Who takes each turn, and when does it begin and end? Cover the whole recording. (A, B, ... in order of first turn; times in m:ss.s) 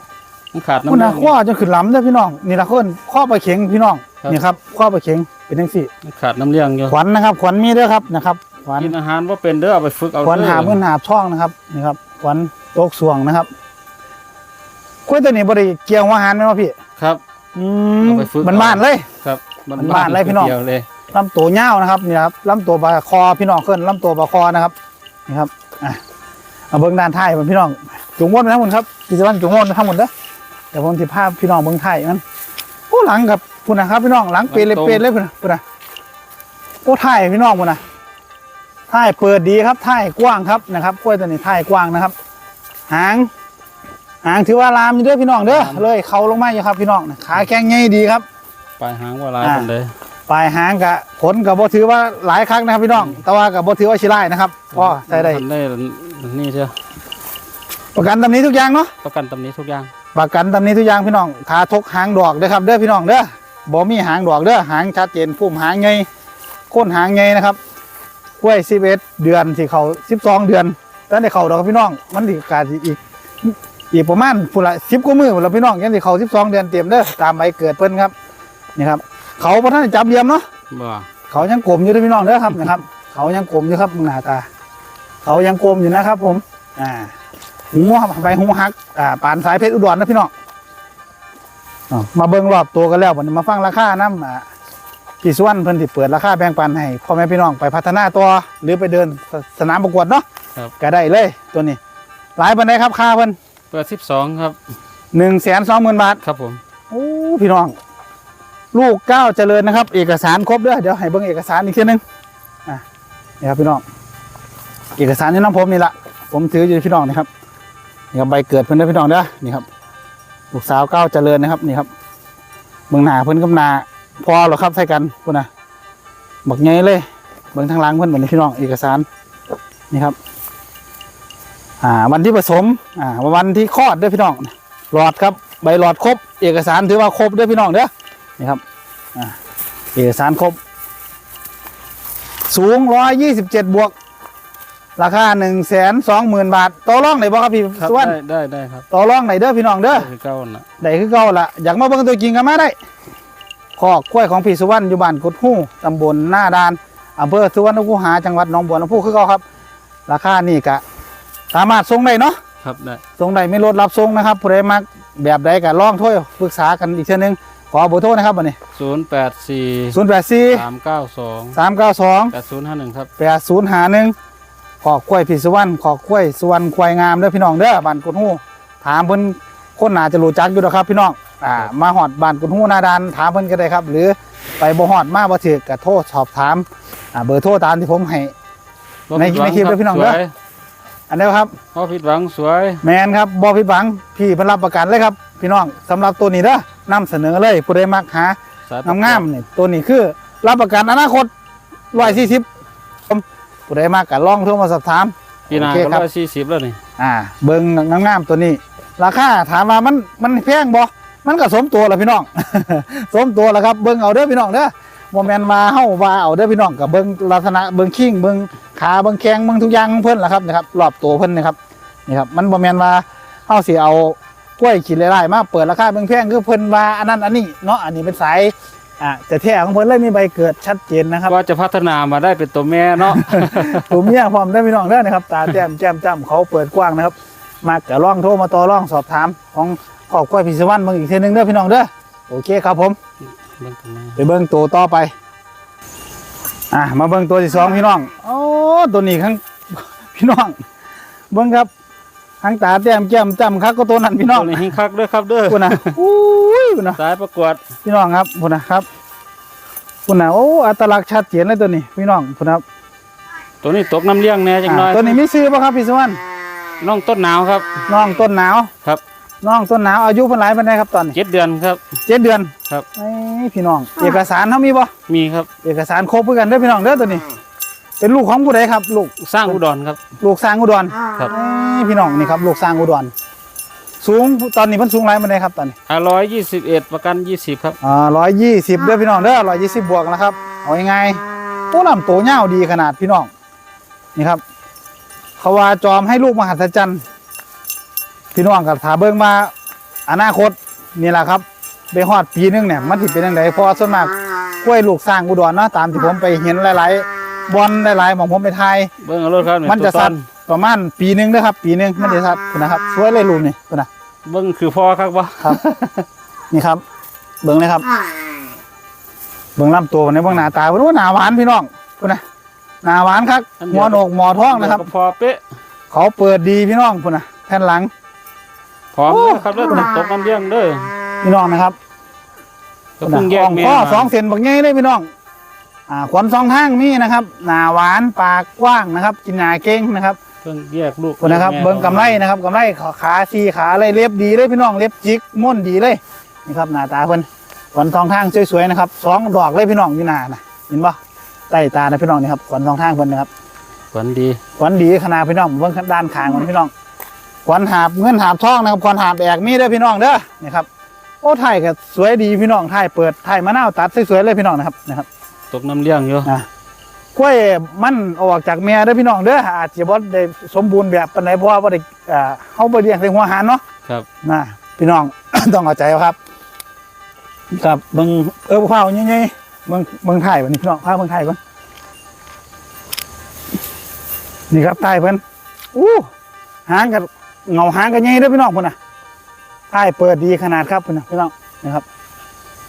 0:00.5-0:01.3 A
0:00.9-0:05.9 B
0:06.0-0:07.0 A
0:06.9-0:08.9 B
0:08.8-0:10.8 A
0:10.2-0:13.5 B
0:15.1-0:16.8 B
0:17.6-0:19.1 B
0:18.0-0:20.9 A
0:19.8-0:20.5 B
0:21.1-0:24.7 B
0:25.3-0:26.0 B
0:26.7-0:30.1 B
0:30.7-0:32.2 B
0:32.9-0:35.6 B
0:34.5-0:35.0 A
0:36.8-0:37.8 B
0:38.9-0:42.1 B
0:42.9-0:43.3 B
0:44.2-0:48.2 B
0:45.5-0:45.9 A
0:48.8-0:49.9 A
0:49.4-0:49.7 B
0:50.3-0:55.4 B
0:53.0-0:53.2 A
0:54.7-0:56.7 A
0:57.9-0:58.9 B
0:59.0-0:59.9 A
1:00.1-1:06.1 B
1:06.7-1:07.6 B
1:08.4-1:18.1 B
1:18.8-1:20.4 B
1:20.7-1:21.1 A
1:21.3-1:24.5 B
1:25.2-1:27.1 B
1:27.7-1:30.3 B
1:31.9-1:34.4 B
1:35.2-1:40.2 B
1:40.8-1:41.8 B
1:42.4-1:43.4 B
1:43.7-1:44.6 A
1:45.1-1:46.2 B
1:46.2-1:46.6 A
1:46.9-1:47.7 B
1:48.7-1:52.0 B
1:53.4-1:53.8 B
1:55.0-1:57.3 B
1:58.1-1:59.7 B
2:00.5-2:01.9 B
2:02.9-2:05.5 B
2:06.4-2:09.1 B
2:09.9-2:10.2 B
2:11.8-2:18.6 B
2:20.0-2:20.6 B
2:22.5-2:23.9 B
2:25.0-2:28.2 B
2:27.8-2:28.9 A
2:28.9-2:30.1 B
2:29.9-2:30.7 A
2:30.8-2:32.8 B
2:33.8-2:39.4 B
2:40.1-2:40.8 B
2:41.5-2:42.4 B
2:42.6-2:43.0 A
2:43.2-2:48.6 B
2:48.8-2:50.0 A
2:49.9-2:50.6 B
2:50.5-2:51.6 A
2:51.5-2:52.4 B
2:52.3-2:53.1 A
2:53.2-2:54.2 B
2:54.8-3:08.3 B
3:09.1-3:10.3 A
3:09.2-3:10.2 B
3:11.1-3:11.5 B
3:11.8-3:12.8 A
3:12.8-3:21.3 B
3:18.7-3:19.3 A
3:21.9-3:22.4 B
3:22.0-3:22.3 A
3:23.1-3:26.1 B
3:25.5-3:26.8 A
3:27.0-3:51.4 B
3:51.3-3:54.1 A
3:53.0-4:03.0 B
4:03.6-4:04.2 A
4:04.2-4:05.1 B
4:06.7-4:10.6 B
4:11.3-4:11.7 B
4:12.4-4:14.6 B
4:14.2-4:16.0 A
4:15.5-4:17.0 B
4:17.0-4:17.6 A
4:17.8-4:18.9 B
4:20.1-4:22.6 B
4:23.6-4:25.2 A
4:24.7-4:26.2 B
4:26.8-4:27.8 A
4:27.9-4:28.7 B
4:29.4-4:31.2 B
4:31.1-4:31.8 A
4:32.1-4:34.9 B
4:35.1-4:35.5 A
4:35.6-4:37.2 B
4:38.0-4:39.6 B
4:39.2-4:40.0 A
4:40.2-4:43.1 B
4:44.0-4:45.8 B
4:45.9-4:47.8 A
4:47.8-4:53.3 B
4:54.2-4:54.4 B
4:55.4-4:57.0 B
4:58.3-4:59.5 B
5:00.1-5:08.9 B
5:09.0-5:10.3 A
5:09.6-5:13.9 B
5:14.3-5:15.6 A
5:15.4-5:15.8 B
5:16.5-5:16.8 B
5:17.4-5:17.9 B
5:19.6-5:22.2 B
5:22.8-5:24.9 B
5:23.6-5:25.4 A
5:25.9-5:27.9 B
5:28.9-5:30.9 A
5:29.1-5:29.7 B
5:31.2-5:31.8 B
5:33.0-5:34.1 A
5:33.1-5:35.1 B
5:35.9-5:40.2 B
5:40.4-5:42.2 A
5:41.2-5:51.0 B
5:51.5-5:53.3 B
5:53.9-5:54.4 A
5:54.6-5:56.7 B
5:57.4-6:00.7 B
6:01.2-6:05.1 B
6:05.5-6:06.3 A
6:07.2-6:13.6 B
6:14.2-6:16.2 B
6:17.5-6:21.4 B
6:24.5-6:25.2 B
6:25.7-6:26.1 B
6:26.7-6:28.8 B
6:29.7-6:31.8 B